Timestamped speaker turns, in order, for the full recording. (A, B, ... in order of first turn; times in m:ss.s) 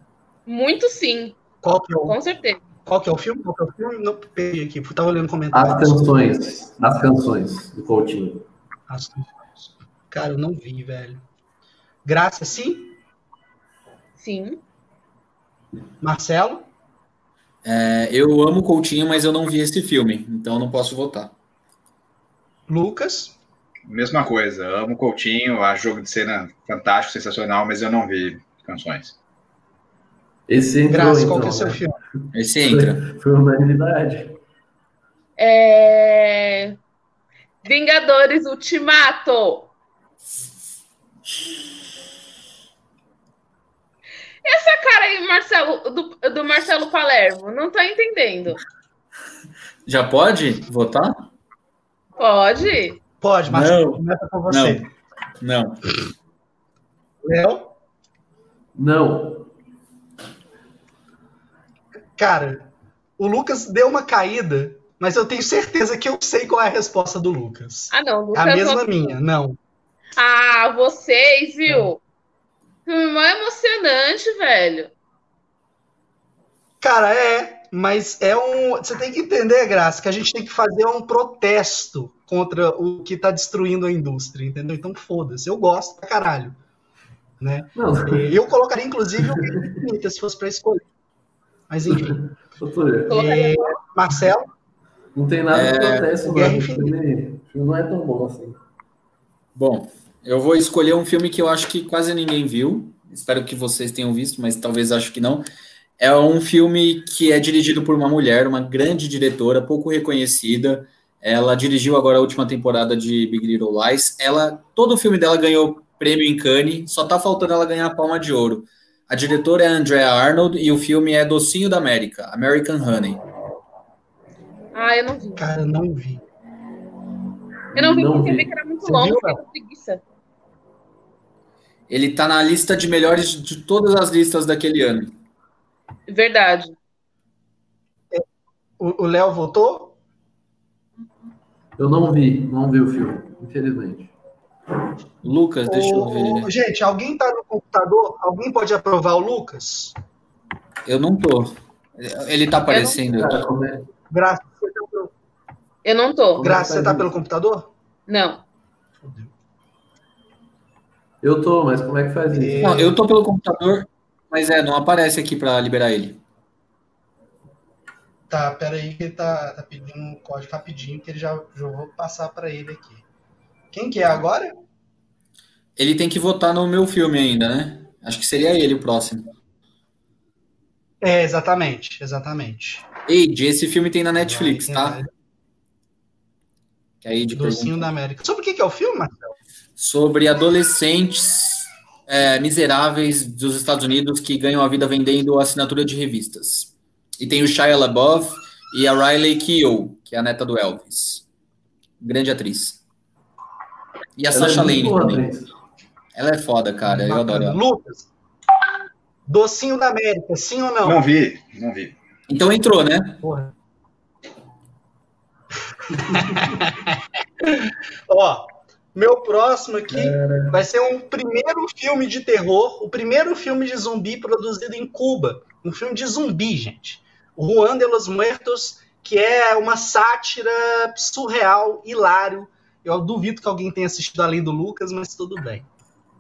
0:00.5-0:01.4 A
0:01.6-0:02.2 B
0:02.1-0:02.6 A
0:02.8-0:06.3 B
0:05.5-0:08.4 C
0:08.9-0:11.2 B
0:12.0-0:13.0 B
0:14.2-0:14.6 A
0:16.0-0:16.7 B
0:17.6-0:21.3 D
0:22.7-0:23.4 B
0:23.9-0:29.2 E
0:30.5-0:31.8 C
0:30.9-0:32.0 B
0:32.3-0:33.0 D
0:32.6-0:34.4 C
0:35.4-0:36.8 A
0:37.6-0:39.7 A
0:44.4-0:48.6 A
0:49.9-0:51.3 D
0:52.2-0:53.0 A
0:53.2-0:54.9 B
0:53.5-0:54.8 D
0:55.4-0:56.0 D
0:57.2-0:57.7 B
0:58.8-0:59.5 C
1:02.2-1:02.7 B
1:03.2-1:09.6 B
1:07.9-1:09.1 A
1:10.2-1:12.0 A
1:12.9-1:14.9 A
1:16.8-1:26.6 B
1:27.4-1:30.9 B
1:27.8-1:28.3 C
1:29.2-1:29.8 C
1:31.7-1:32.2 B
1:31.9-1:33.2 C
1:33.1-1:33.8 A
1:33.1-1:34.5 B
1:35.2-1:38.6 C
1:35.5-1:36.1 D
1:36.2-1:37.0 B
1:39.6-1:45.5 D
1:46.0-2:03.2 D
2:04.7-2:05.4 A
2:05.4-2:06.2 B
2:07.7-2:08.5 C
2:07.7-2:10.0 A
2:08.8-2:09.4 B
2:11.9-2:15.2 D
2:16.1-2:16.8 A
2:18.8-2:20.0 B
2:21.8-2:24.1 C
2:25.2-2:26.5 D
2:25.7-2:30.0 B
2:30.9-2:33.4 D
2:32.7-2:33.0 A
2:33.1-2:33.9 C
2:34.1-2:35.1 B
2:35.8-2:36.5 A
2:36.4-2:37.7 B
2:36.4-2:37.1 C
2:38.1-2:38.4 A
2:39.0-2:39.3 B
2:41.2-2:42.9 C
2:42.3-2:43.0 B
2:42.6-2:46.2 D
2:48.3-2:53.1 B
2:53.7-2:54.6 B
2:55.8-2:59.3 D
3:01.0-3:02.9 B
3:03.1-3:05.0 D
3:04.2-3:05.1 B
3:07.0-3:07.9 D
3:07.3-3:09.4 B
3:09.8-3:21.2 D
3:22.0-3:22.8 D
3:24.2-3:25.3 D
3:24.3-3:25.5 C
3:26.2-3:27.6 D
3:26.8-3:28.1 B
3:29.3-3:31.0 B
3:30.8-3:32.0 E
3:32.3-3:33.2 D
3:33.2-3:33.5 B
3:36.0-3:55.7 B
3:39.9-3:40.6 C